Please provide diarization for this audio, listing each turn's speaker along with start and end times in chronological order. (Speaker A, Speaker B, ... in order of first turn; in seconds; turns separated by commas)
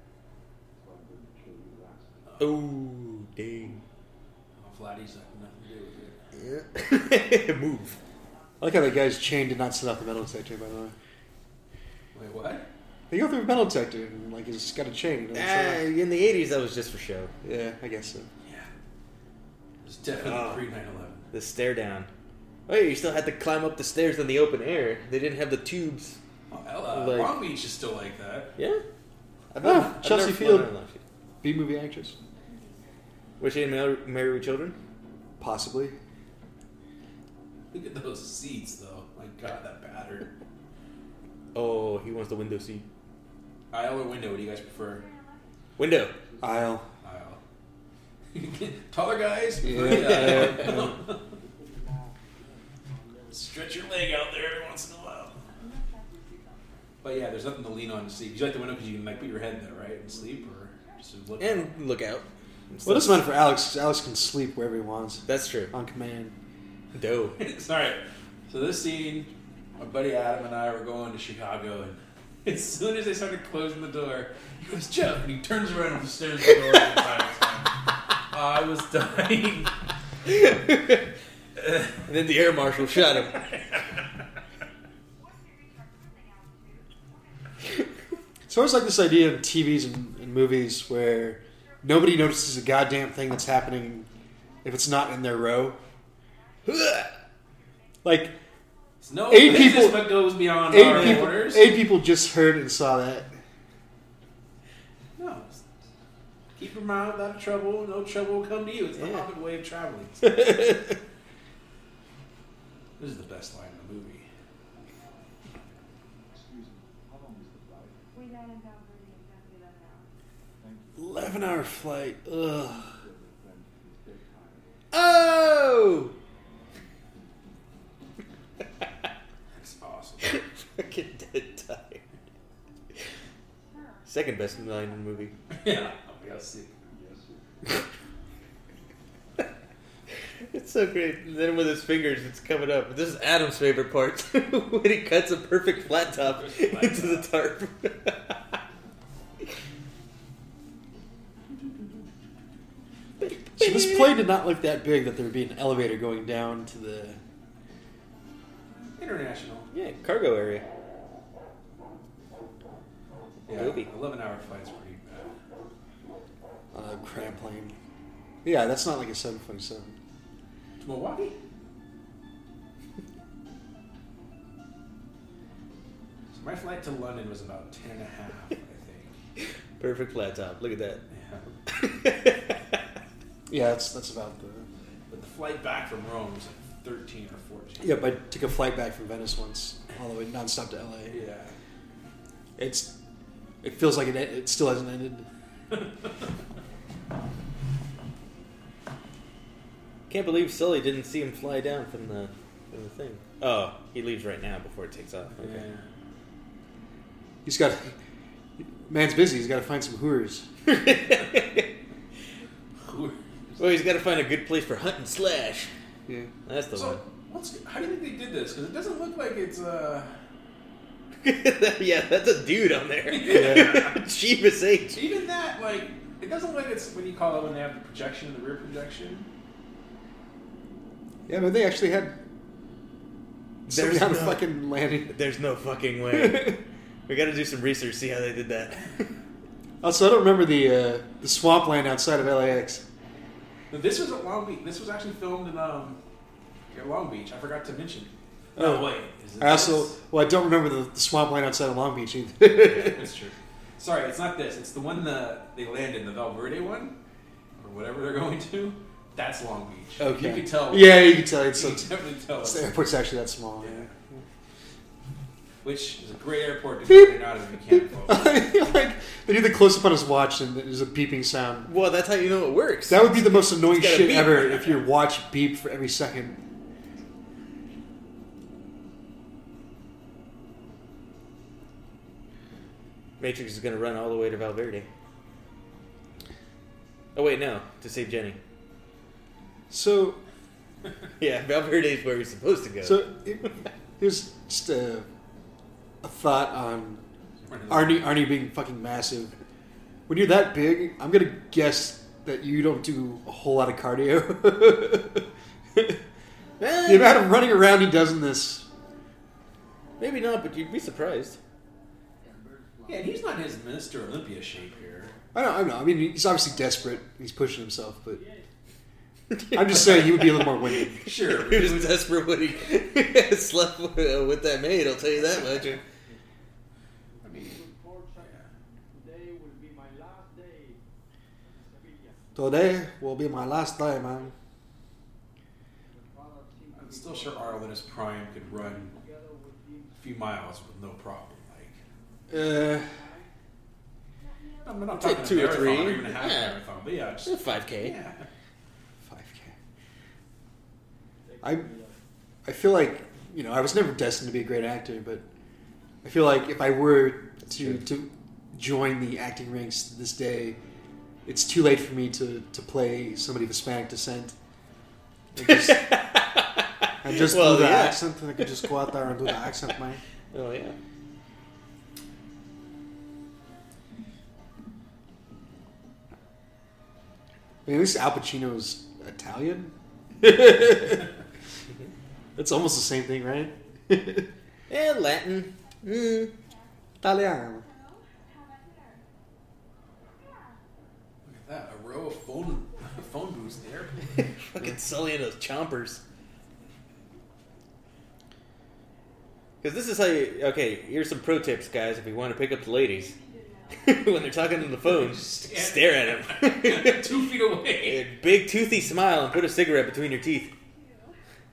Speaker A: 0.7-2.4, Speaker B: 2.4-3.8, Speaker C: 4.6-6.2, Speaker B: 6.3-8.0, Speaker D: 8.6-10.9, Speaker C: 12.1-12.7, Speaker D: 13.1-15.9, Speaker B: 15.3-17.3, Speaker D: 17.4-18.3, Speaker C: 18.4-18.7, Speaker C: 19.8-21.3, Speaker B: 20.2-20.6, Speaker B: 21.3-22.1, Speaker B: 22.7-26.2, Speaker C: 26.5-28.6, Speaker B: 26.9-27.4, Speaker B: 28.6-28.8, Speaker B: 29.5-31.0, Speaker D: 29.6-30.7, Speaker D: 31.4-32.1, Speaker E: 32.4-33.0, Speaker B: 33.4-34.8, Speaker D: 35.4-36.0, Speaker C: 37.7-40.3, Speaker B: 41.5-42.8, Speaker C: 43.7-45.0, Speaker E: 44.8-45.6, Speaker B: 45.8-46.1, Speaker D: 46.4-46.9, Speaker C: 47.0-47.4, Speaker C: 48.3-51.2, Speaker D: 49.6-50.9, Speaker B: 49.9-50.7, Speaker A: 51.3-53.5, Speaker C: 53.3-55.4, Speaker E: 55.6-56.8, Speaker C: 57.0-61.8, Speaker A: 59.1-60.6, Speaker B: 61.4-63.2, Speaker D: 62.8-66.3, Speaker B: 65.3-65.7, Speaker B: 66.9-67.4, Speaker C: 67.4-79.8, Speaker B: 80.3-81.1, Speaker C: 81.6-81.9, Speaker B: 82.0-83.4, Speaker C: 83.3-83.8, Speaker E: 85.2-88.0, Speaker D: 88.5-94.1, Speaker D: 94.6-95.8, Speaker E: 96.4-97.1, Speaker B: 96.7-97.1, Speaker D: 98.0-98.3, Speaker E: 99.0-99.3, Speaker C: 99.0-101.7, Speaker D: 99.3-103.3, Speaker C: 105.2-105.6, Speaker C: 106.5-110.8, Speaker C: 113.0-114.3, Speaker A: 116.3-118.0, Speaker E: 118.1-120.1, Speaker A: 120.6-121.3, Speaker B: 121.0-122.7, Speaker D: 121.2-122.2, Speaker A: 122.8-124.7, Speaker B: 124.9-126.1, Speaker C: 129.5-130.4, Speaker B: 130.2-132.0, Speaker E: 133.6-135.3, Speaker B: 134.1-135.3, Speaker C: 135.5-136.7, Speaker A: 136.9-137.7, Speaker B: 140.5-148.6, Speaker C: 146.2-147.3, Speaker B: 153.2-154.3, Speaker D: 153.5-157.2, Speaker C: 158.9-159.7, Speaker B: 159.7-160.6, Speaker C: 163.5-165.3, Speaker B: 163.5-163.9, Speaker D: 166.7-167.8, Speaker D: 168.4-170.0, Speaker C: 170.8-171.4, Speaker C: 176.3-179.1, Speaker B: 179.8-181.0, Speaker C: 181.1-181.5, Speaker B: 181.7-182.8, Speaker D: 183.5-184.7, Speaker C: 185.1-188.1, Speaker D: 187.8-191.2, Speaker C: 191.1-191.5, Speaker D: 192.6-192.9, Speaker D: 193.6-195.3, Speaker B: 200.1-205.6, Speaker C: 205.4-205.8, Speaker D: 207.4-207.9, Speaker D: 208.8-210.5, Speaker B: 210.7-211.7, Speaker C: 212.8-213.6, Speaker B: 213.6-215.7, Speaker B: 216.4-217.0, Speaker C: 216.7-220.1, Speaker B: 221.2-225.0, Speaker C: 223.1-224.0, Speaker D: 223.3-223.8, Speaker C: 224.9-229.3, Speaker D: 231.3-232.2, Speaker D: 233.7-235.2, Speaker B: 233.7-234.5, Speaker B: 235.1-239.0, Speaker D: 236.1-236.6, Speaker D: 239.8-242.8, Speaker C: 243.7-246.0, Speaker C: 246.7-250.0, Speaker D: 248.6-253.1, Speaker C: 252.6-256.9, Speaker C: 257.6-262.8, Speaker D: 260.0-263.9, Speaker C: 263.6-263.9, Speaker C: 265.6-268.5, Speaker D: 266.9-267.2, Speaker D: 267.7-271.7, Speaker B: 271.6-274.8, Speaker D: 272.9-276.4, Speaker B: 283.2-284.9, Speaker B: 287.1-288.4, Speaker D: 289.7-290.2, Speaker B: 291.2-293.0, Speaker D: 292.8-295.1, Speaker D: 296.0-297.0, Speaker C: 297.5-298.1, Speaker D: 297.7-299.4, Speaker D: 300.1-306.0, Speaker B: 306.6-307.2, Speaker D: 306.8-308.7, Speaker B: 310.0-311.4, Speaker A: 312.2-313.5, Speaker C: 312.9-315.1, Speaker A: 314.5-315.2, Speaker D: 315.3-318.2, Speaker A: 318.1-318.4, Speaker B: 319.3-325.8, Speaker D: 319.5-321.1, Speaker C: 321.0-322.1, Speaker A: 327.1-330.8, Speaker C: 327.2-327.6, Speaker A: 331.4-332.2, Speaker D: 332.3-334.3, Speaker A: 335.9-337.8, Speaker C: 336.7-338.9, Speaker A: 338.5-340.0, Speaker C: 339.9-341.8, Speaker A: 342.2-343.3, Speaker D: 342.3-342.9, Speaker E: 344.2-345.6, Speaker C: 344.6-348.3, Speaker B: 344.9-346.6, Speaker B: 347.2-348.0, Speaker D: 349.0-349.5, Speaker A: 351.2-351.9, Speaker D: 351.4-351.7, Speaker D: 352.4-355.2, Speaker D: 356.0-360.6, Speaker B: 357.4-357.8, Speaker D: 361.2-364.4, Speaker D: 365.3-365.9, Speaker B: 365.4-368.7, Speaker D: 367.0-370.0, Speaker B: 370.3-370.8, Speaker D: 377.6-381.1, Speaker D: 382.4-384.3, Speaker B: 384.7-386.3, Speaker E: 385.5-389.0, Speaker D: 387.0-387.6, Speaker E: 390.1-390.6, Speaker C: 391.2-394.1, Speaker B: 394.4-396.0, Speaker B: 399.6-403.1, Speaker E: 402.8-404.6, Speaker B: 403.7-407.1, Speaker C: 404.8-408.0, Speaker B: 407.8-410.5, Speaker E: 409.6-411.2